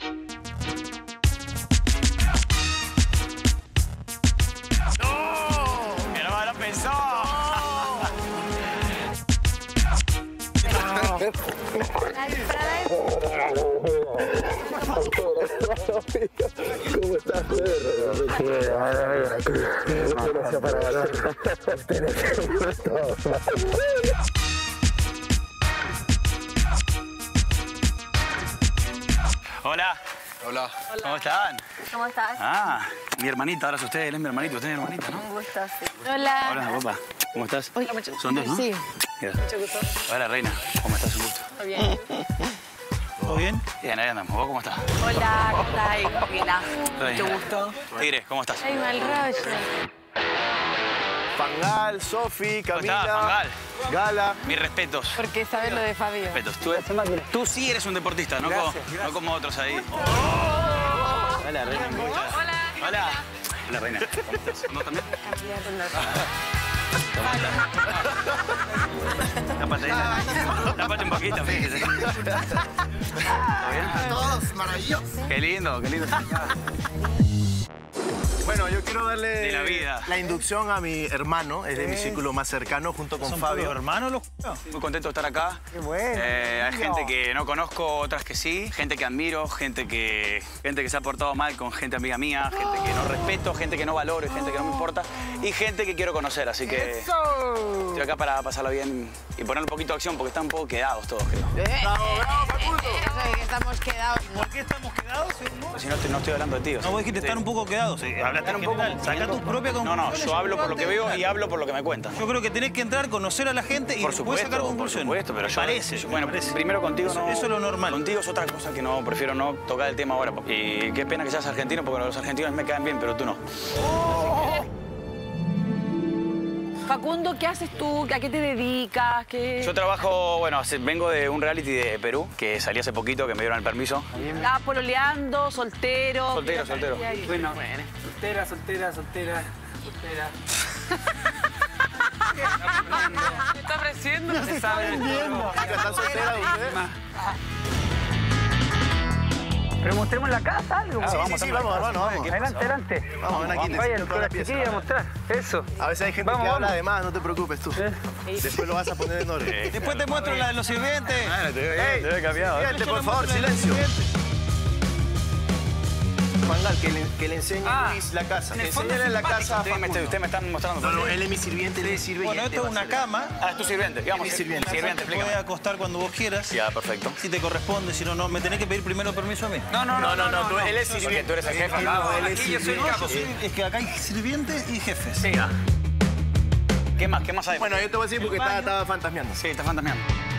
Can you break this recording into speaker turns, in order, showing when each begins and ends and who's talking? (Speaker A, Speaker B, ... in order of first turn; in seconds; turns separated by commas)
Speaker A: 5.2-5.8, Speaker B: 5.9-8.1, Speaker A: 10.8-11.2, Speaker C: 12.1-13.1, Speaker A: 15.0-19.0, Speaker D: 18.7-19.3, Speaker A: 20.1-21.1, Speaker B: 29.6-30.0, Speaker A: 30.4-30.7, Speaker B: 30.9-31.7, Speaker C: 31.8-32.4, Speaker B: 32.4-35.3, Speaker C: 35.2-36.8, Speaker B: 36.4-41.5, Speaker C: 37.8-38.8, Speaker C: 41.6-42.1, Speaker E: 43.2-43.6, Speaker B: 43.8-44.9, Speaker C: 45.0-47.8, Speaker B: 46.9-49.2, Speaker C: 48.6-49.7, Speaker A: 51.4-54.4, Speaker B: 52.7-53.5, Speaker B: 54.4-55.3, Speaker C: 55.2-56.4, Speaker B: 56.2-60.2, Speaker B: 61.1-65.3, Speaker C: 65.3-66.0, Speaker B: 67.2-67.7, Speaker B: 69.5-72.3, Speaker A: 69.8-72.6, Speaker A: 73.3-75.1, Speaker B: 73.4-74.2, Speaker B: 75.2-76.5, Speaker A: 78.4-83.8, Speaker B: 79.4-80.1, Speaker E: 81.8-82.2, Speaker E: 83.2-84.6, Speaker B: 84.7-97.2, Speaker E: 85.7-87.1, Speaker A: 97.3-97.7, Speaker B: 97.8-101.6, Speaker A: 101.5-103.2, Speaker C: 101.8-104.2, Speaker E: 104.2-105.8, Speaker B: 105.7-107.4, Speaker E: 106.8-111.2, Speaker B: 108.4-112.2, Speaker E: 112.1-118.0, Speaker B: 114.0-123.4, Speaker B: 124.0-124.3, Speaker C: 124.2-124.5, Speaker C: 126.9-129.7, Speaker B: 129.6-134.3, Speaker C: 134.2-137.9, Speaker B: 136.3-137.2, Speaker D: 137.4-139.5, Speaker E: 138.3-139.3, Speaker D: 140.1-140.3, Speaker D: 143.7-145.7, Speaker E: 144.2-146.6, Speaker A: 145.3-146.9, Speaker D: 149.8-151.2, Speaker B: 151.0-152.8, Speaker A: 151.0-152.4, Speaker D: 152.3-155.7, Speaker A: 153.1-154.9, Speaker B: 153.3-153.9, Speaker E: 153.3-153.7, Speaker A: 155.7-159.6, Speaker D: 156.2-156.7, Speaker B: 159.4-160.5, Speaker E: 159.7-161.3, Speaker B: 161.2-162.7, Speaker A: 161.7-163.9, Speaker E: 162.6-164.1, Speaker A: 166.4-170.2, Speaker B: 167.7-168.0, Speaker B: 168.5-171.2, Speaker A: 170.8-173.0, Speaker E: 172.2-173.3, Speaker B: 173.4-175.4, Speaker A: 174.1-174.9, Speaker E: 174.6-176.6, Speaker B: 176.5-177.2, Speaker E: 177.2-180.2, Speaker B: 179.7-183.3, Speaker A: 179.9-183.3, Speaker E: 180.8-185.2, Speaker B: 185.2-185.5, Speaker B: 186.9-187.9, Speaker A: 187.6-189.4, Speaker E: 188.3-188.7, Speaker B: 189.3-190.1